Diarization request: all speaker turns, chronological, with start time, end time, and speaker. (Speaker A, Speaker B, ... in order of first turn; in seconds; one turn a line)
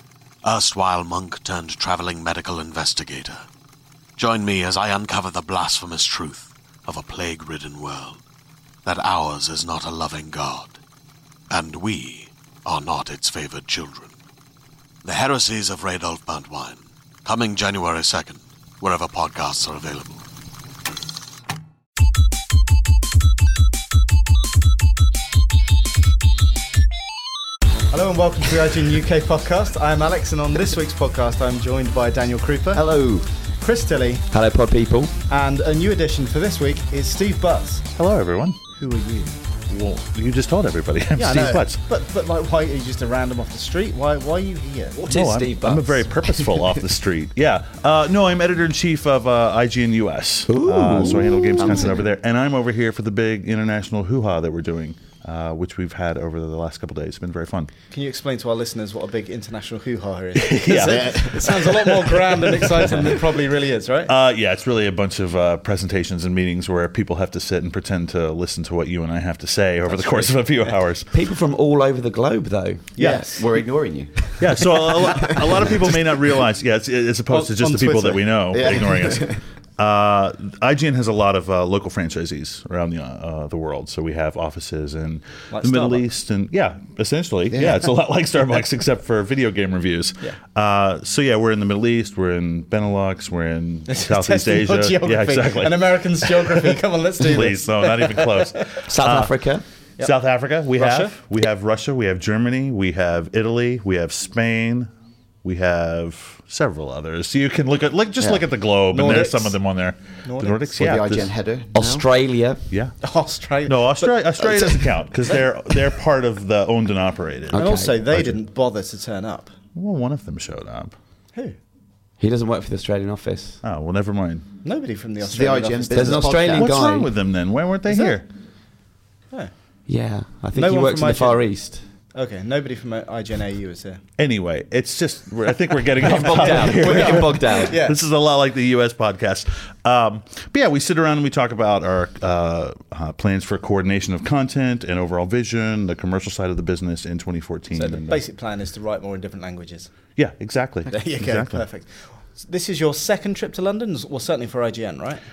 Speaker A: 0.4-3.5
Speaker A: 4.2-8.2
Speaker A: 8.8-10.8
Speaker A: 11.5-14.2
Speaker A: 15.0-20.2
Speaker B: 27.9-32.8
Speaker C: 32.7-33.3
Speaker B: 33.6-34.3
Speaker D: 34.3-35.1
Speaker B: 35.3-37.9
Speaker E: 37.9-38.6
Speaker B: 38.8-39.4
Speaker E: 39.7-41.8
Speaker B: 41.2-45.0
Speaker D: 45.0-46.0
Speaker E: 45.1-57.7
Speaker D: 50.5-51.8
Speaker C: 51.0-52.1
Speaker B: 57.9-64.1
Speaker E: 60.4-63.2
Speaker C: 60.8-61.4
Speaker E: 64.1-71.1
Speaker D: 71.1-72.9
Speaker B: 73.0-73.5
Speaker C: 73.0-76.2
Speaker E: 74.4-99.3
Speaker B: 77.3-78.9
Speaker C: 78.5-79.4
Speaker B: 85.5-86.0
Speaker C: 87.5-87.9
Speaker B: 93.9-98.6
Speaker D: 98.9-99.6
Speaker E: 100.0-104.9
Speaker B: 100.8-101.1
Speaker E: 105.4-111.3
Speaker C: 108.2-108.5
Speaker B: 108.9-109.6
Speaker B: 110.2-110.8
Speaker C: 110.8-112.0
Speaker D: 111.7-112.6
Speaker E: 112.7-113.0
Speaker B: 113.0-115.8
Speaker E: 113.7-118.3
Speaker D: 117.5-118.1
Speaker B: 117.5-119.5
Speaker E: 119.8-120.9
Speaker D: 122.2-123.6
Speaker E: 123.6-124.4
Speaker B: 124.6-126.4
Speaker C: 125.2-126.8
Speaker D: 125.9-127.1
Speaker E: 126.5-128.2
Speaker B: 127.9-128.2
Speaker D: 129.9-131.8
Speaker B: 130.6-131.5
Speaker B: 132.1-134.0
Speaker E: 134.2-148.2
Speaker D: 136.1-137.8
Speaker B: 136.3-138.0
Speaker B: 147.7-149.9
Speaker E: 150.2-151.6
Speaker B: 150.9-155.2